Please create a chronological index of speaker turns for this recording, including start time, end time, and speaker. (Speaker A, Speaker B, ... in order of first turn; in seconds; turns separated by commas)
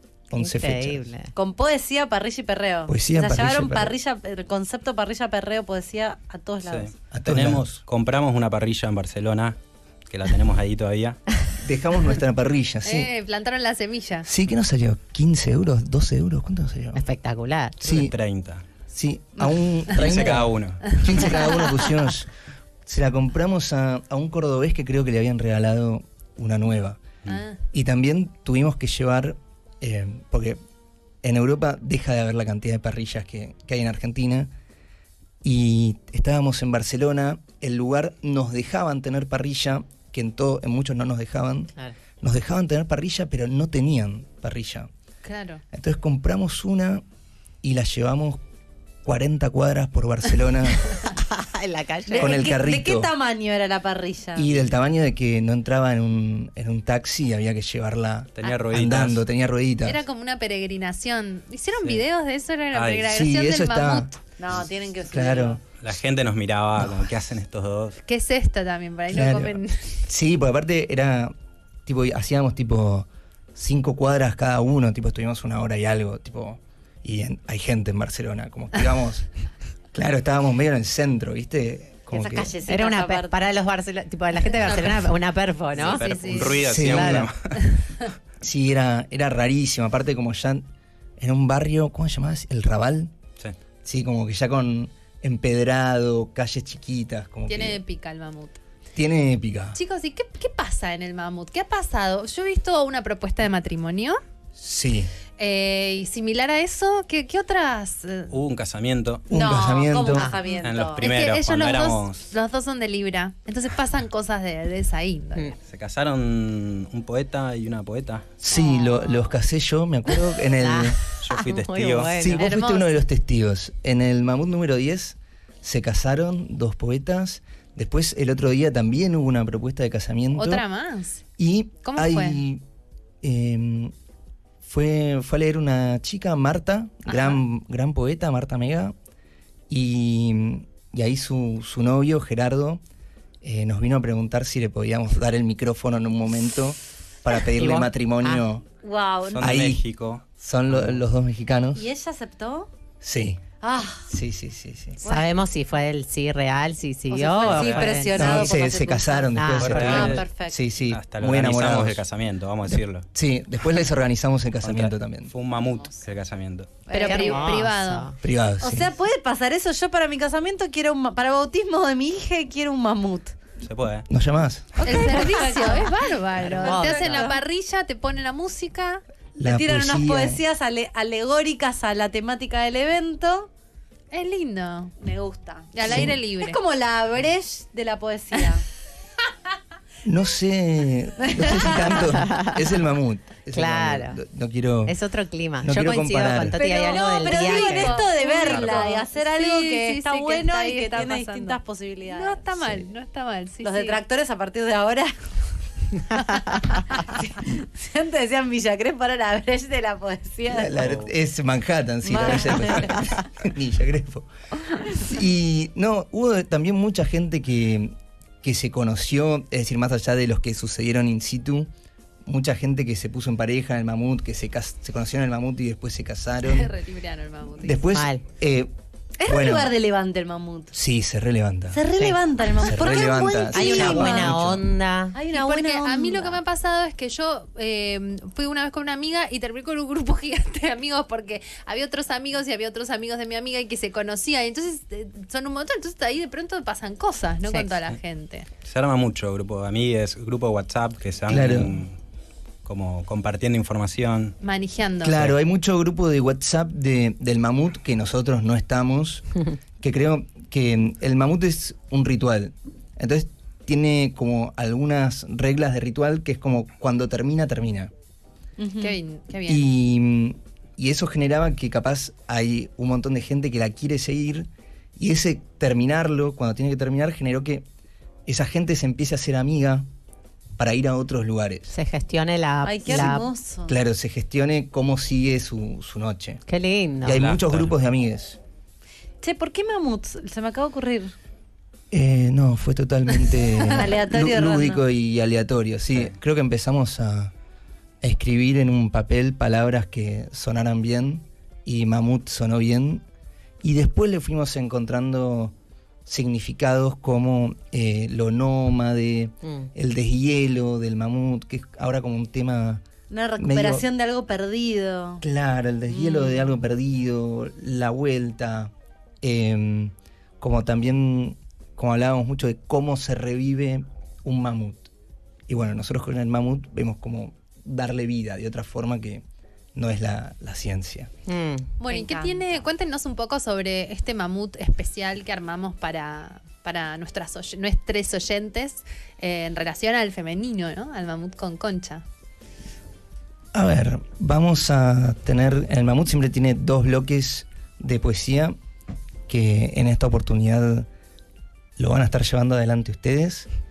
Speaker A: 0.3-1.1, Speaker B: 0.3-1.3, Speaker C: 1.4-6.9, Speaker A: 2.9-3.9, Speaker D: 6.6-11.2, Speaker A: 7.1-7.7, Speaker A: 11.6-13.1, Speaker E: 12.8-14.3, Speaker A: 14.3-17.0, Speaker B: 16.9-17.9, Speaker A: 17.8-18.1, Speaker D: 17.9-18.7, Speaker A: 18.9-22.3, Speaker D: 19.9-21.2, Speaker E: 19.9-20.3, Speaker A: 22.9-27.1, Speaker E: 27.3-27.6, Speaker A: 27.7-30.6, Speaker A: 31.2-34.5, Speaker A: 35.4-44.9, Speaker E: 45.2-45.6, Speaker A: 45.7-47.0, Speaker A: 47.6-48.4, Speaker A: 49.0-51.0, Speaker B: 51.1-52.4, Speaker C: 52.1-54.6, Speaker A: 52.2-53.1, Speaker A: 54.4-60.0, Speaker D: 58.4-59.2, Speaker E: 59.9-64.2, Speaker D: 62.7-63.1, Speaker A: 63.1-64.1, Speaker C: 64.4-65.6, Speaker A: 65.1-65.6, Speaker D: 65.7-68.0, Speaker A: 66.8-67.1, Speaker E: 68.1-70.0, Speaker A: 69.1-71.3, Speaker A: 71.9-79.3, Speaker A: 79.9-82.5, Speaker C: 82.1-83.4, Speaker B: 82.7-87.3, Speaker E: 84.5-85.1, Speaker D: 85.7-87.6, Speaker E: 85.8-86.7, Speaker A: 86.7-87.3, Speaker A: 88.4-90.7, Speaker A: 91.2-93.1, Speaker A: 93.8-97.8, Speaker E: 97.5-98.6, Speaker A: 99.0-99.8, Speaker E: 99.8-104.2, Speaker A: 104.6-105.1, Speaker E: 105.4-108.3, Speaker D: 108.3-109.3, Speaker A: 109.3-110.3, Speaker C: 109.3-111.1, Speaker E: 110.5-115.6, Speaker D: 110.6-112.3, Speaker D: 115.7-118.3, Speaker A: 118.4-121.0, Speaker B: 120.5-122.5, Speaker D: 121.2-122.4, Speaker A: 122.2-130.6, Speaker E: 122.4-122.9, Speaker E: 130.4-131.2, Speaker A: 131.4-132.6, Speaker E: 131.8-132.4, Speaker A: 133.2-133.9, Speaker A: 134.6-138.9, Speaker E: 137.1-137.4, Speaker A: 139.7-142.8, Speaker A: 143.4-148.6, Speaker B: 147.5-148.4, Speaker C: 148.8-149.5, Speaker D: 149.3-151.0, Speaker A: 149.4-151.9, Speaker C: 151.7-152.7, Speaker A: 153.0-153.4, Speaker C: 153.6-154.1, Speaker A: 154.1-155.0, Speaker C: 155.0-155.3, Speaker B: 155.0-158.5, Speaker C: 157.1-160.6, Speaker D: 157.4-158.0, Speaker A: 158.2-162.0, Speaker B: 159.3-160.1, Speaker D: 159.6-160.3, Speaker D: 160.8-163.1, Speaker A: 162.7-165.3, Speaker D: 164.6-166.8, Speaker C: 166.9-167.4, Speaker E: 166.9-168.1, Speaker B: 167.0-168.2, Speaker A: 168.2-168.9, Speaker C: 168.6-173.4, Speaker D: 173.6-174.1, Speaker A: 174.1-174.7, Speaker C: 174.8-175.9, Speaker E: 174.8-179.0, Speaker B: 176.4-177.3, Speaker C: 176.5-177.4, Speaker A: 179.4-180.4, Speaker C: 179.4-183.5, Speaker E: 184.1-184.9, Speaker C: 185.0-188.6, Speaker E: 185.7-186.6, Speaker A: 190.1-195.0, Speaker C: 191.3-191.9, Speaker B: 192.2-192.6, Speaker B: 193.5-194.2, Speaker B: 194.9-198.0, Speaker A: 195.6-196.6, Speaker C: 196.6-202.8, Speaker E: 196.6-204.0, Speaker D: 198.5-198.9, Speaker C: 203.6-205.1, Speaker C: 206.9-210.9, Speaker A: 210.5-214.3, Speaker D: 210.8-211.1, Speaker C: 212.0-213.1, Speaker A: 215.0-221.7, Speaker A: 222.2-226.7, Speaker E: 226.4-227.8, Speaker A: 227.6-228.7, Speaker B: 227.9-228.2, Speaker C: 229.2-230.7, Speaker A: 229.3-229.7, Speaker A: 230.7-231.8, Speaker C: 231.7-234.4, Speaker A: 232.6-234.6, Speaker B: 233.5-235.2, Speaker C: 235.1-236.4, Speaker E: 235.3-248.5, Speaker D: 248.6-252.0, Speaker A: 251.3-251.8, Speaker D: 252.7-254.4, Speaker E: 254.4-255.2, Speaker A: 255.0-259.3, Speaker A: 259.8-267.9, Speaker C: 268.6-268.9, Speaker E: 268.8-269.6, Speaker A: 269.5-277.6, Speaker A: 278.3-279.9, Speaker A: 280.6-281.7, Speaker B: 281.7-283.2, Speaker C: 282.6-283.8, Speaker A: 283.7-286.4, Speaker B: 286.5-287.2, Speaker A: 287.0-288.4, Speaker D: 287.1-287.8, Speaker C: 289.2-291.1, Speaker A: 291.9-297.3, Speaker C: 293.7-294.8, Speaker A: 298.0-303.0, Speaker A: 303.6-305.5, Speaker A: 306.1-312.8, Speaker B: 309.4-309.7, Speaker C: 313.1-315.2, Speaker A: 313.4-313.9, Speaker A: 315.2-324.9, Speaker C: 315.9-316.5, Speaker A: 325.5-329.2, Speaker A: 329.8-331.1, Speaker B: 331.3-331.7, Speaker E: 331.8-342.0, Speaker C: 331.9-332.7, Speaker A: 343.5-348.6, Speaker A: 349.3-350.9, Speaker A: 351.8-353.5